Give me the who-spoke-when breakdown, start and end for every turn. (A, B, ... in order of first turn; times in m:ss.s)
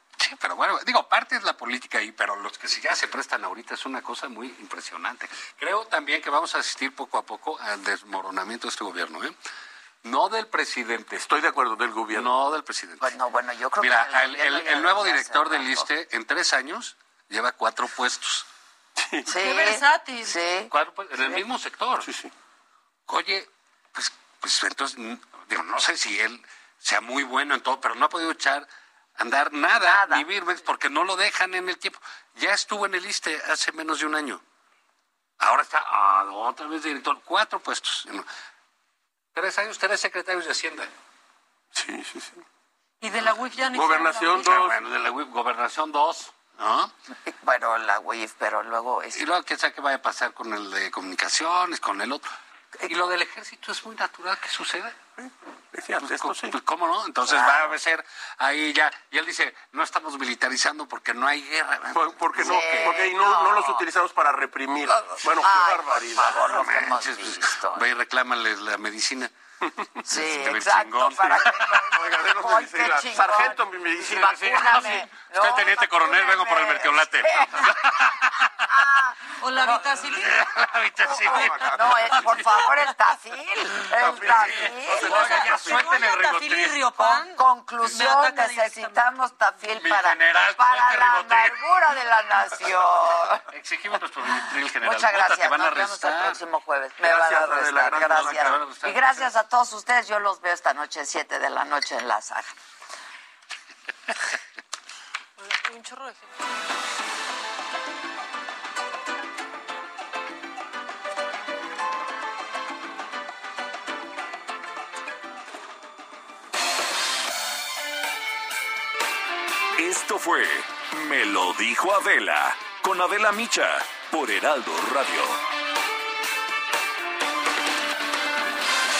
0:00.2-0:09.3 A
0:10.0-0:11.2 A
0:11.1-0:12.3 B
0:12.1-0:13.2 A
0:13.0-0:15.9 C
0:13.8-0:18.4 A
0:19.0-0:19.3 B
0:19.3-0:20.7 C
0:19.3-0:20.4 D
0:20.7-0:22.1 A
0:22.0-0:22.3 B
0:23.1-0:34.4 A
0:29.8-0:30.3 C
0:35.4-0:38.2 A
0:39.3-0:40.9 A
0:41.7-0:42.4 B
0:43.0-0:44.5 D
0:43.7-0:44.8 B
0:44.4-0:46.9 A
0:47.2-0:49.2 C
0:49.1-0:52.2 A
0:52.8-0:55.0 A
0:55.2-0:56.6 B
0:56.0-1:03.0 A
0:57.2-0:57.7 C
1:01.9-1:06.7 B
1:02.4-1:03.8 C
1:05.2-1:07.8 C
1:06.3-1:09.3 A
1:10.0-1:18.0 C
1:10.1-1:11.6 A
1:11.2-1:14.6 B
1:14.1-1:18.5 A
1:18.7-1:19.9 C
1:19.4-1:20.7 D
1:20.1-1:22.4 A
1:21.2-1:21.5 D
1:21.2-1:25.5 C
1:21.5-1:21.8 B
1:24.0-1:24.3 B
1:24.0-1:26.8 A
1:25.0-1:27.4 D
1:27.0-1:33.4 C
1:27.9-1:29.1 D
1:29.7-1:31.6 A
1:33.5-1:36.4 A
1:34.3-1:42.5 C
1:37.0-1:38.7 B
1:38.2-1:39.1 A
1:45.4-1:46.3 D
1:59.8-2:05.4 E